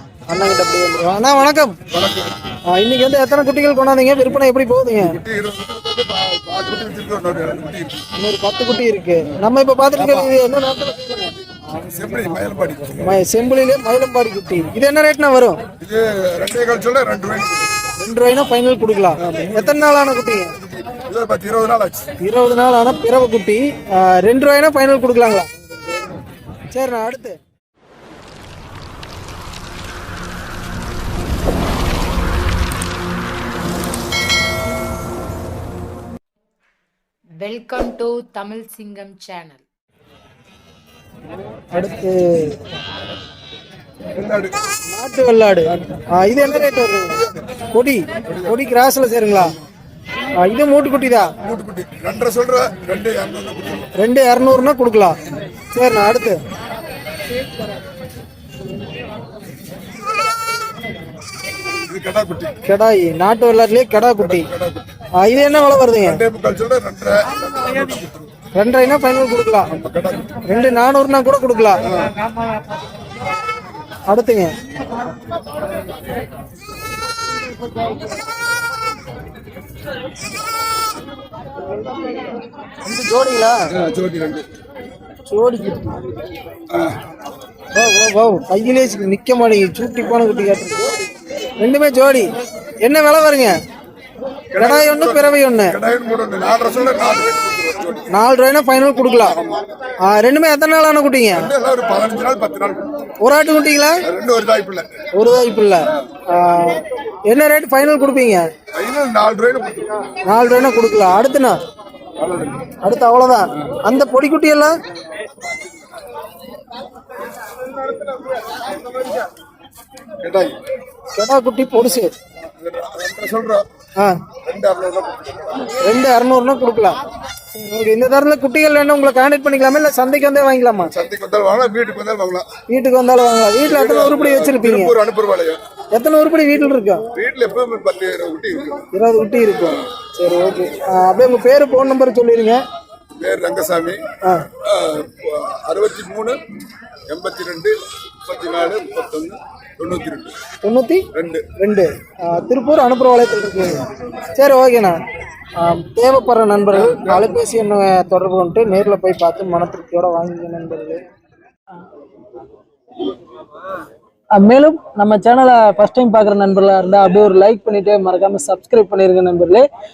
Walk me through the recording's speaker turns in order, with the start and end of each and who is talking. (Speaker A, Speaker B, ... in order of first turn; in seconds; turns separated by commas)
Speaker A: 0.3-1.8, Speaker B: 1.9-2.4, Speaker A: 2.7-5.2, Speaker B: 5.0-8.1, Speaker A: 8.2-12.3, Speaker B: 11.7-13.2, Speaker A: 13.0-15.6, Speaker B: 15.8-17.7, Speaker A: 18.0-20.6, Speaker B: 19.2-19.8, Speaker B: 20.6-22.1, Speaker A: 22.2-25.6, Speaker A: 26.7-27.4, Speaker C: 37.4-39.6, Speaker A: 41.7-42.6, Speaker B: 44.1-44.6, Speaker A: 44.9-49.5, Speaker B: 48.3-48.5, Speaker A: 50.4-51.4, Speaker B: 51.4-53.9, Speaker A: 54.0-55.2, Speaker A: 55.7-56.4, Speaker B: 61.8-62.6, Speaker A: 62.6-64.5, Speaker B: 64.2-64.9, Speaker A: 65.2-66.2, Speaker B: 66.0-68.3, Speaker A: 68.5-69.7, Speaker B: 69.7-70.4, Speaker A: 70.4-71.8, Speaker A: 74.1-74.6, Speaker A: 82.8-83.7, Speaker B: 83.7-84.5, Speaker A: 85.3-86.0, Speaker B: 86.7-87.0, Speaker A: 87.7-91.0, Speaker A: 91.6-92.3, Speaker A: 92.8-93.6, Speaker B: 94.5-98.1, Speaker A: 94.5-95.8, Speaker A: 98.1-99.4, Speaker A: 100.0-101.5, Speaker B: 101.3-102.9, Speaker A: 103.2-104.0, Speaker B: 104.1-105.1, Speaker A: 105.1-108.5, Speaker B: 108.7-110.1, Speaker A: 110.2-111.6, Speaker B: 112.2-112.6, Speaker A: 112.8-114.8, Speaker B: 120.2-120.6, Speaker A: 121.1-122.1, Speaker B: 122.5-123.7, Speaker A: 124.0-124.2, Speaker B: 124.4-125.7, Speaker A: 125.6-127.0, Speaker A: 127.5-130.9, Speaker B: 130.9-132.5, Speaker A: 132.7-134.9, Speaker B: 133.6-135.6, Speaker A: 135.9-137.1, Speaker B: 137.1-138.9, Speaker A: 138.9-142.6, Speaker B: 143.2-146.5, Speaker A: 144.2-144.5, Speaker B: 147.1-150.4, Speaker A: 150.6-155.0, Speaker B: 151.1-151.6, Speaker A: 155.6-161.0, Speaker B: 156.8-157.3, Speaker A: 164.3-169.7